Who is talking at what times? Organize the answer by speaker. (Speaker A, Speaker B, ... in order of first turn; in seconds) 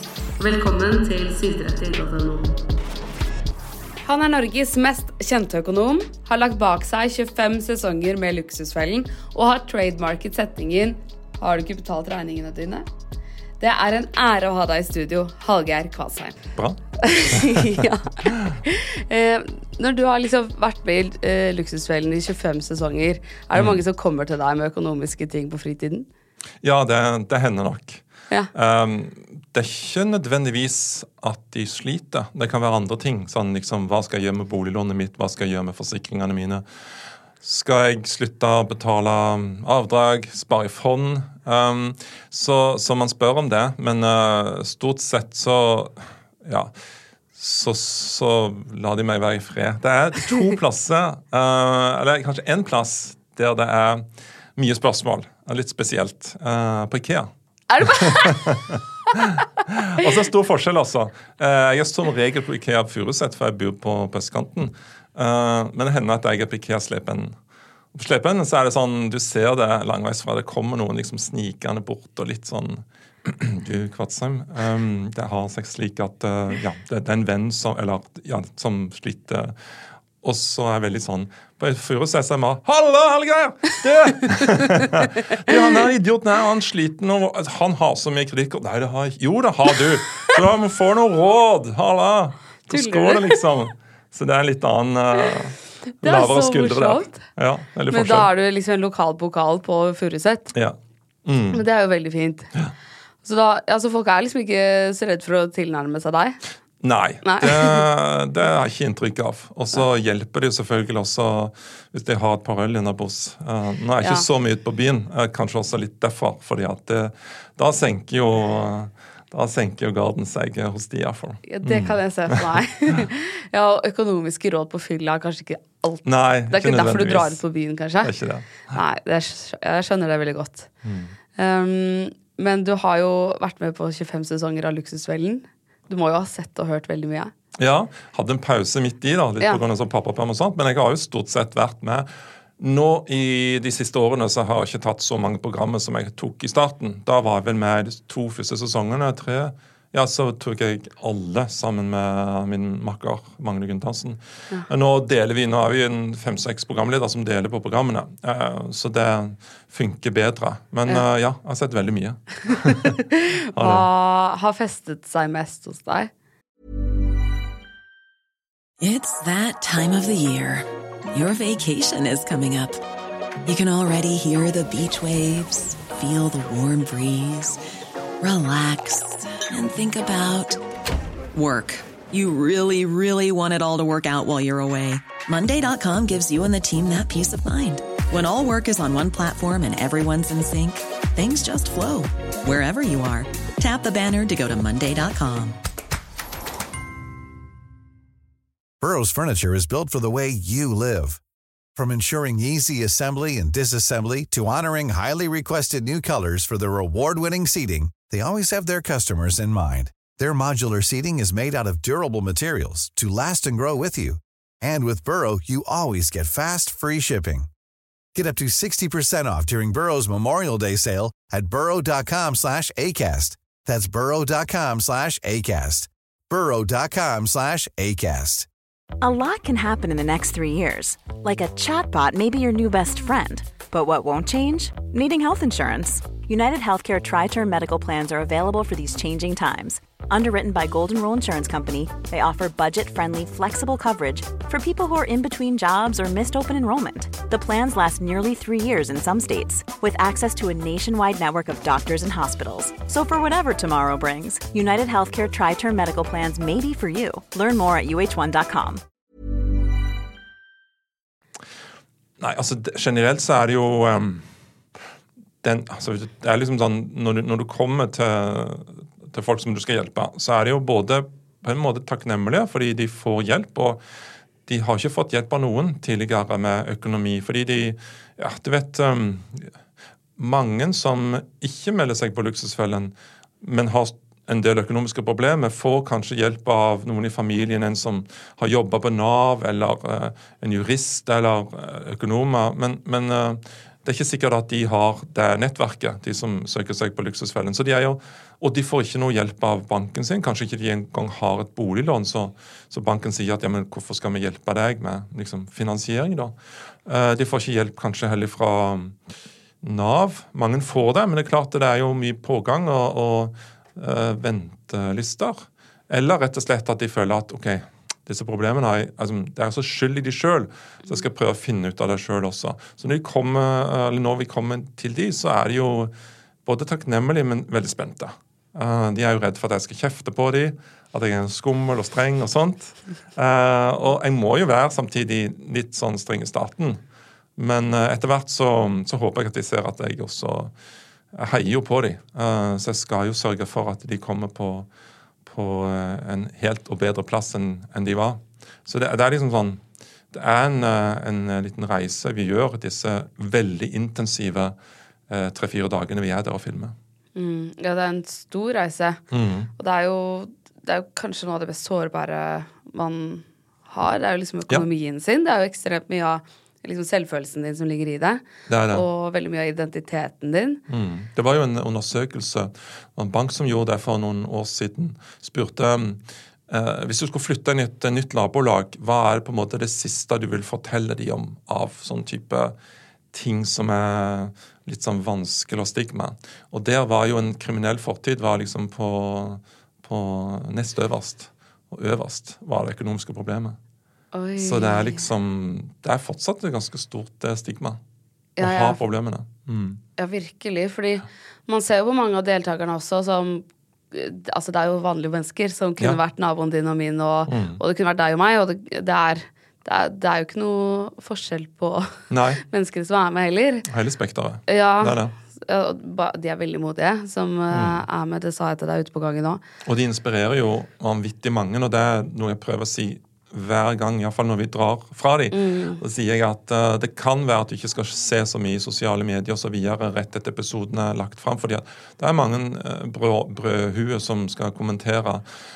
Speaker A: 0.4-2.5, 4.0-12.8, 13.6-26.1, 57.7-58.5, 92.7-93.4, 96.0-97.2, 97.9-100.5, 101.5-102.5, 103.2-106.4, 107.2-107.9, 121.5-128.1, 128.7-130.7, 131.3-137.3, 162.5-166.1, 357.1-359.0, 359.6-370.6, 394.1-395.1, 398.4-398.8, 400.0-413.6, 414.5-419.4, 425.3-425.8
Speaker B: 16.6-18.6, 23.5-23.8, 26.6-36.6, 37.4-46.7, 47.3-57.3, 57.8-67.3, 67.9-79.6, 80.2-98.3, 100.5-101.7, 106.8-123.0, 126.0-127.4, 128.0-128.8, 130.8-131.1, 137.6-163.0, 163.5-163.8, 262.2-264.2, 265.4-273.8, 274.5-279.5, 280.2-306.3, 306.9-308.9, 309.6-325.9, 326.4-336.8, 337.4-340.5, 341.1-344.7, 345.2-349.6, 350.1-354.6, 355.1-356.8, 359.1-359.5, 368.5-368.9, 370.7-382.6, 383.1-393.6, 394.4-397.8, 398.4-399.8, 407.3-407.6, 412.1-412.4, 413.7-415.1, 417.5-417.8, 419.6-435.2
Speaker C: 168.8-172.8, 173.4-177.6, 178.2-180.6, 181.3-195.6
Speaker D: 198.8-201.2, 201.8-217.5, 218.1-228.5
Speaker E: 229.0-258.8